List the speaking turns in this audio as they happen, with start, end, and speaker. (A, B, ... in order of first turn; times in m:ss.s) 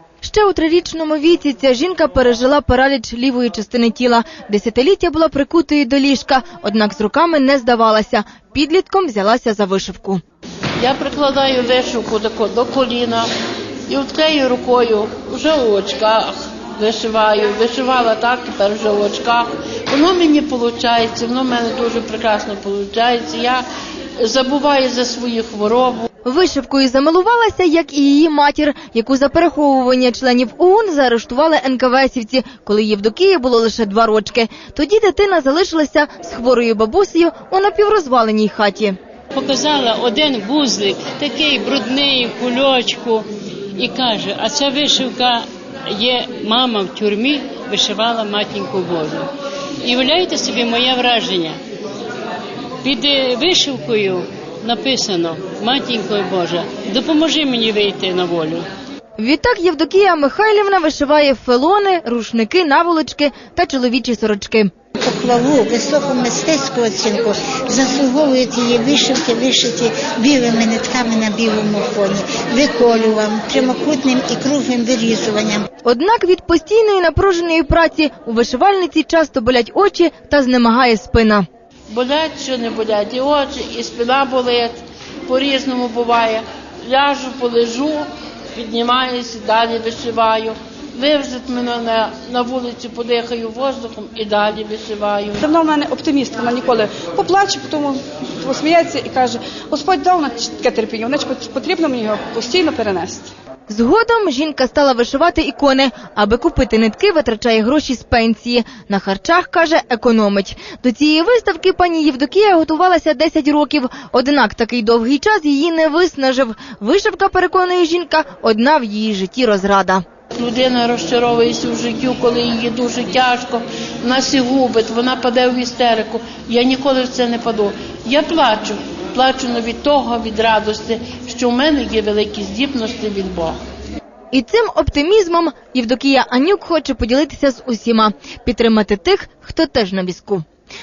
0:00.2-0:10.2 A
0:10.8-0:13.3 B
0:13.9-0:23.7 B
0:24.2-0:26.1 B
0:26.3-0:39.0 A
0:39.4-0:43.3 C
0:43.8-0:49.3 C
0:49.8-0:51.6 C
0:52.8-0:58.6 C
0:59.2-1:04.7 A
1:05.0-1:15.7 D
1:15.8-1:21.5 A
1:21.9-1:35.5 B
1:35.4-1:43.3 E
1:43.7-2:00.0 A
2:00.4-2:13.6 B
2:14.3-2:20.4 A